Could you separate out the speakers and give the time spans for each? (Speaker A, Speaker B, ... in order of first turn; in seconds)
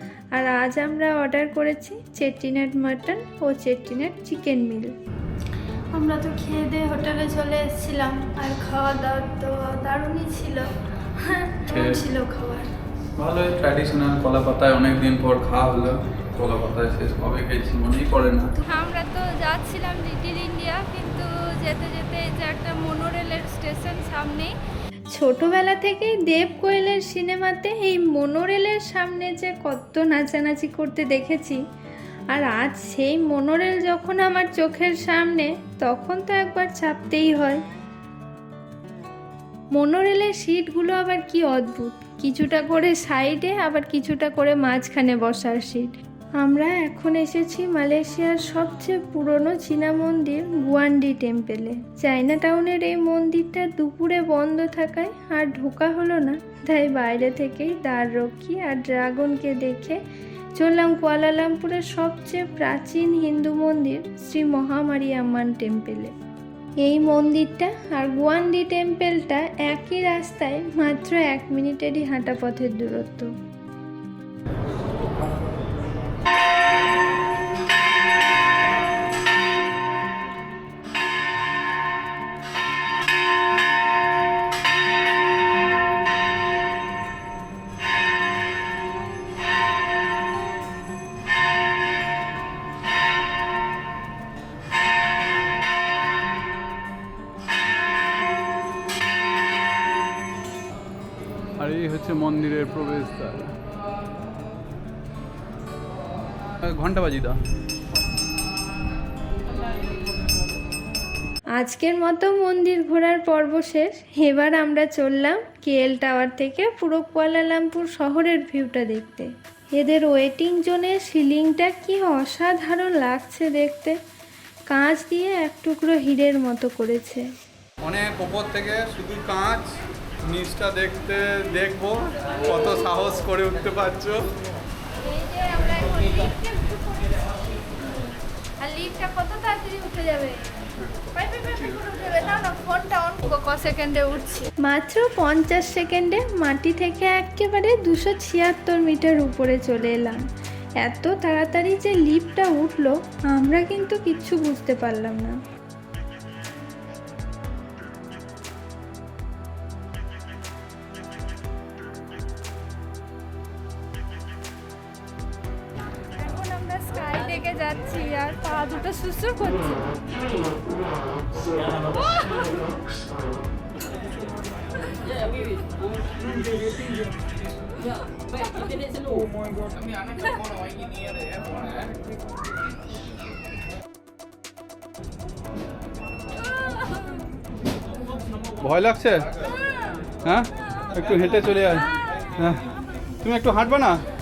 Speaker A: 0.3-4.9, 5.9-10.7, 11.2-12.7, 25.1-31.6, 32.3-37.6, 39.7-60.0, 60.6-66.1, 66.8-73.3, 111.6-124.0, 124.7-127.2, 135.2-136.9, 138.9-140.3, 141.2-142.7, 144.2-150.2, 150.8-155.3, 169.0-169.5
Speaker B: 11.7-12.0, 13.2-18.5, 101.6-103.5, 106.6-107.4, 127.8-129.7, 130.3-134.3, 188.6-189.3, 190.2-192.6, 193.2-194.0
Speaker C: 18.7-24.5, 135.1-138.0, 138.6-140.3, 141.2-144.5, 166.2-169.8, 172.2-172.5